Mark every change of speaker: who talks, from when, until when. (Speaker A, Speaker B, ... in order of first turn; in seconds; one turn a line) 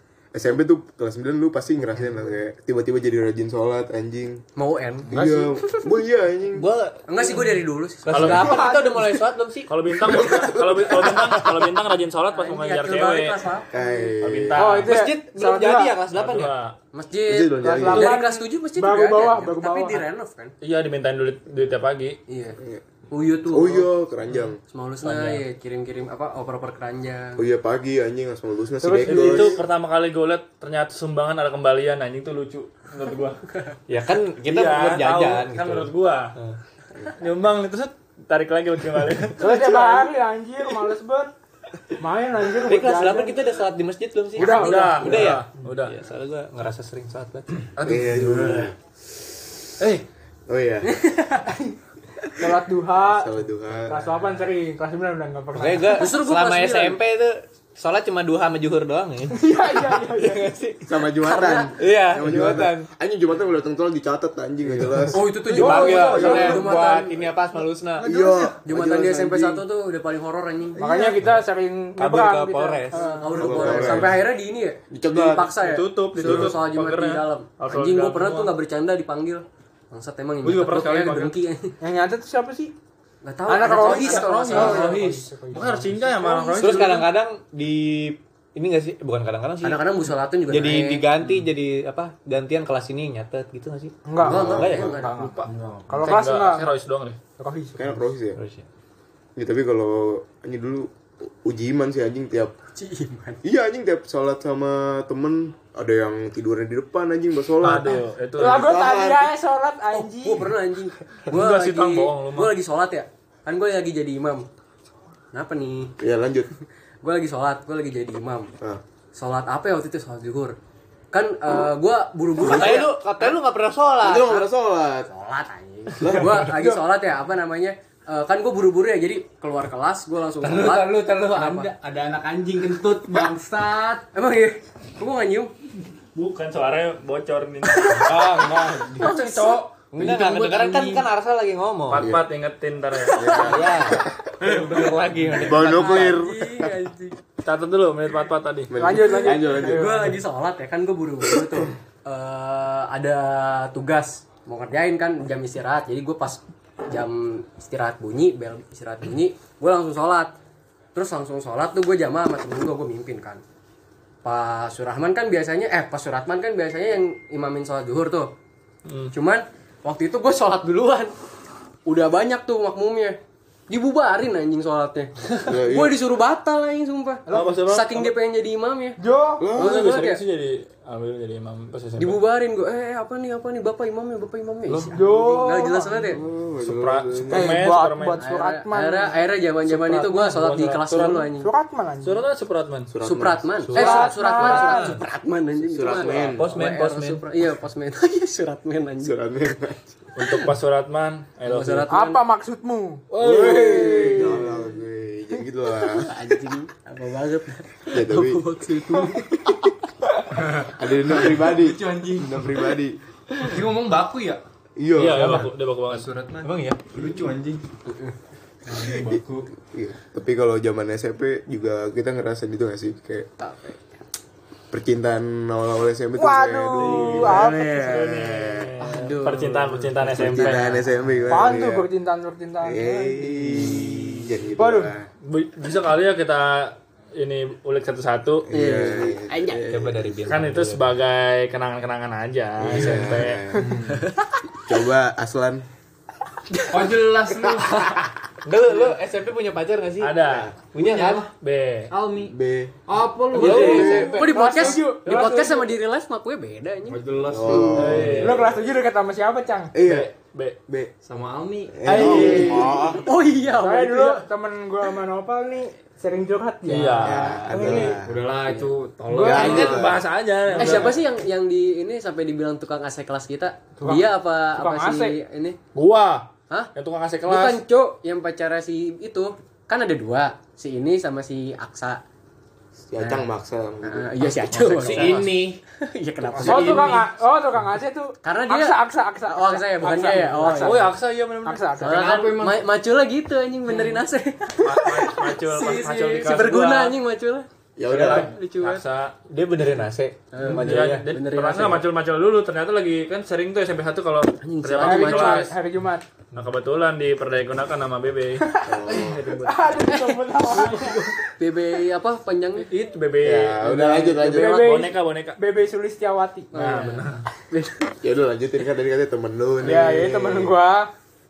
Speaker A: 0.3-4.4
Speaker B: 4.5-5.1
Speaker A: 5.1-6.7
Speaker C: 6.5-9.7
Speaker B: 7.1-8.9
Speaker D: 8.1-8.7
Speaker E: 8.7-9.0
Speaker D: 9.7-13.5
Speaker A: 10.2-11.3
Speaker B: 12.3-13.9
Speaker A: 13.7-14.6
Speaker D: 14.2-15.0
Speaker E: 14.6-15.9
Speaker C: 14.8-16.5
Speaker D: 16.1-16.8
Speaker B: 16.9-20.5
Speaker A: 17.3-18.2
Speaker E: 17.6-20.0
Speaker D: 20.6-22.2
Speaker B: 22.3-22.6
Speaker B: 23.1-23.9
Speaker A: 23.5-24.6
Speaker B: 24.7-27.4
Speaker C: 25.1-25.4
Speaker A: 27.4-29.6
Speaker E: 28.8-29.6
Speaker D: 29.1-33.4
Speaker C: 33.9-36.6
Speaker D: 34.4-36.4
Speaker D: 37.2-40.1
Speaker E: 39.4-41.3
Speaker E: 42.0-43.4
Speaker C: 42.6-47.6
Speaker E: 44.4-45.4
Speaker D: 44.4-46.0
Speaker A: 47.8-48.7
Speaker A: 50.5-50.9
Speaker B: 50.9-51.5
Speaker E: 52.4-56.1
Speaker A: 53.1-54.0
Speaker C: 55.5-60.9
Speaker B: 56.0-57.0
Speaker E: 59.3-60.5
Speaker A: 60.8-65.3
Speaker B: 61.2-61.8
Speaker C: 61.8-62.9
Speaker B: 65.1-67.2
Speaker C: 65.4-68.1
Speaker E: 65.5-66.6
Speaker D: 65.7-66.6
Speaker A: 68.0-69.6
Speaker E: 68.0-68.5
Speaker B: 68.6-71.1
Speaker E: 70.8-73.8
Speaker C: 72.0-73.0
Speaker B: 72.9-81.7
Speaker A: 73.3-74.3
Speaker A: 74.9-75.5
Speaker D: 75.5-78.6
Speaker A: 76.2-76.6
Speaker D: 80.4-81.3
Speaker E: 81.8-82.7
Speaker B: 83.2-85.0
Speaker E: 83.5-86.9
Speaker D: 83.8-87.1
Speaker F: 84.6-85.1
Speaker C: 86.6-94.0
Speaker B: 89.6-91.1
Speaker E: 94.0-94.6
Speaker B: 94.2-95.3
Speaker A: 94.2-95.1
Speaker D: 94.5-97.2
Speaker E: 95.9-96.7
Speaker E: 97.4-98.0
Speaker A: 97.8-98.4
Speaker C: 98.4-98.6
Speaker A: 99.3-102.5
Speaker B: 102.7-103.4
Speaker A: 103.4-109.3
Speaker D: 107.6-108.8
Speaker E: 108.3-110.5
Speaker B: 109.9-114.5
Speaker D: 111.3-112.5
Speaker B: 115.3-115.9
Speaker A: 116.0-116.5
Speaker B: 117.0-118.5
Speaker B: 119.1-120.5
Speaker B: 121.1-123.3
Speaker C: 122.4-124.3
Speaker A: 122.5-122.8
Speaker A: 124.0-125.1
Speaker B: 125.1-131.7
Speaker A: 126.0-126.8
Speaker F: 130.4-134.1
Speaker B: 134.1-135.5
Speaker D: 136.1-139.6
Speaker F: 138.7-139.1
Speaker B: 139.0-139.7
Speaker F: 139.9-141.1
Speaker C: 139.9-142.1
Speaker D: 141.9-143.7
Speaker A: 141.9-142.2
Speaker A: 143.1-144.1
Speaker B: 143.2-143.7
Speaker C: 143.3-146.2
Speaker B: 145.3-147.2
Speaker A: 145.3-146.7
Speaker D: 147.4-148.7
Speaker A: 148.7-150.1
Speaker E: 148.7-150.2
Speaker B: 149.1-160.3
Speaker B: 160.9-163.4
Speaker B: 164.2-168.3
Speaker D: 168.8-169.1
Speaker B: 169.1-171.1
Speaker B: 171.8-179.0
Speaker A: 175.4-176.0
Speaker E: 177.3-177.6
Speaker D: 177.3-178.1
Speaker E: 179.0-179.5
Speaker A: 179.4-180.0
Speaker D: 179.5-182.2
Speaker B: 179.6-180.2
Speaker B: 182.0-186.2
Speaker E: 184.9-186.1
Speaker A: 186.1-187.6
Speaker D: 186.6-188.2
Speaker E: 187.3-189.2
Speaker B: 188.2-191.5
Speaker D: 189.6-191.3
Speaker E: 191.4-192.2
Speaker D: 192.0-192.9
Speaker A: 192.9-193.5
Speaker B: 193.0-199.1
Speaker C: 193.6-195.0
Speaker E: 193.7-195.0
Speaker A: 195.6-196.5
Speaker C: 196.3-197.2
Speaker A: 199.0-200.0
Speaker D: 200.2-201.9
Speaker B: 201.4-202.2
Speaker E: 201.9-204.4
Speaker A: 203.1-206.1
Speaker B: 203.2-204.6
Speaker B: 205.9-209.4
Speaker A: 207.9-208.4
Speaker F: 210.5-212.4
Speaker A: 210.6-213.0
Speaker F: 213.4-214.4
Speaker A: 214.8-215.4
Speaker D: 214.9-216.1
Speaker F: 215.2-217.6
Speaker C: 216.4-216.8
Speaker B: 217.8-218.1
Speaker F: 218.7-219.5
Speaker A: 219.1-223.3
Speaker B: 223.4-223.8
Speaker A: 224.7-228.8
Speaker E: 226.2-227.8
Speaker D: 226.8-230.8
Speaker B: 228.8-230.8
Speaker A: 230.1-231.9
Speaker E: 231.3-233.5
Speaker A: 232.6-235.1
Speaker E: 234.6-234.9
Speaker D: 235.2-238.5
Speaker A: 238.5-240.2
Speaker B: 238.5-239.6
Speaker C: 239.7-240.9
Speaker D: 240.3-243.6
Speaker A: 242.6-243.7
Speaker F: 243.6-244.1
Speaker A: 244.6-245.6
Speaker F: 246.7-248.0
Speaker C: 248.4-251.2
Speaker D: 250.0-250.6
Speaker F: 250.7-251.3
Speaker D: 251.3-251.9
Speaker F: 251.9-252.3
Speaker A: 252.2-252.7
Speaker F: 252.8-254.2
Speaker C: 253.3-254.3
Speaker E: 253.4-255.7
Speaker B: 253.5-257.9
Speaker D: 253.6-253.8
Speaker A: 253.7-254.1
Speaker F: 256.9-258.2
Speaker A: 257.3-258.4
Speaker D: 257.7-258.5
Speaker E: 258.2-259.7
Speaker A: 259.7-260.1
Speaker D: 259.8-260.6
Speaker F: 261.0-262.2
Speaker A: 261.7-263.1
Speaker E: 261.9-262.8
Speaker B: 261.9-264.2
Speaker D: 262.1-262.4
Speaker E: 263.6-267.9
Speaker D: 266.6-267.8
Speaker A: 267.0-268.1
Speaker F: 267.7-269.9
Speaker E: 269.1-269.7
Speaker A: 269.2-270.0
Speaker D: 269.2-271.0
Speaker B: 270.5-275.6
Speaker F: 270.6-271.0
Speaker E: 273.8-275.2
Speaker D: 275.7-277.6
Speaker B: 277.2-282.0
Speaker A: 282.9-284.6
Speaker B: 283.0-283.2
Speaker B: 283.8-286.9
Speaker D: 284.5-285.2
Speaker F: 284.8-285.6
Speaker F: 286.4-287.0
Speaker E: 286.4-290.9
Speaker B: 288.2-290.9
Speaker D: 290.5-291.8
Speaker E: 291.4-292.1
Speaker B: 291.8-297.5
Speaker F: 291.8-292.6
Speaker D: 293.7-294.0
Speaker D: 294.6-297.0
Speaker A: 297.8-298.3
Speaker D: 297.9-299.1
Speaker B: 298.0-298.8
Speaker C: 299.3-301.1
Speaker B: 300.3-301.9
Speaker D: 300.5-305.5
Speaker B: 304.4-305.5
Speaker E: 304.8-306.0
Speaker D: 306.3-309.8
Speaker E: 308.4-311.2
Speaker A: 308.7-309.3
Speaker B: 309.9-312.7
Speaker D: 312.7-315.4
Speaker A: 313.2-314.7
Speaker B: 313.8-314.8
Speaker E: 314.3-316.6
Speaker B: 316.5-317.1
Speaker D: 316.5-317.2
Speaker A: 318.0-320.6
Speaker E: 319.6-320.9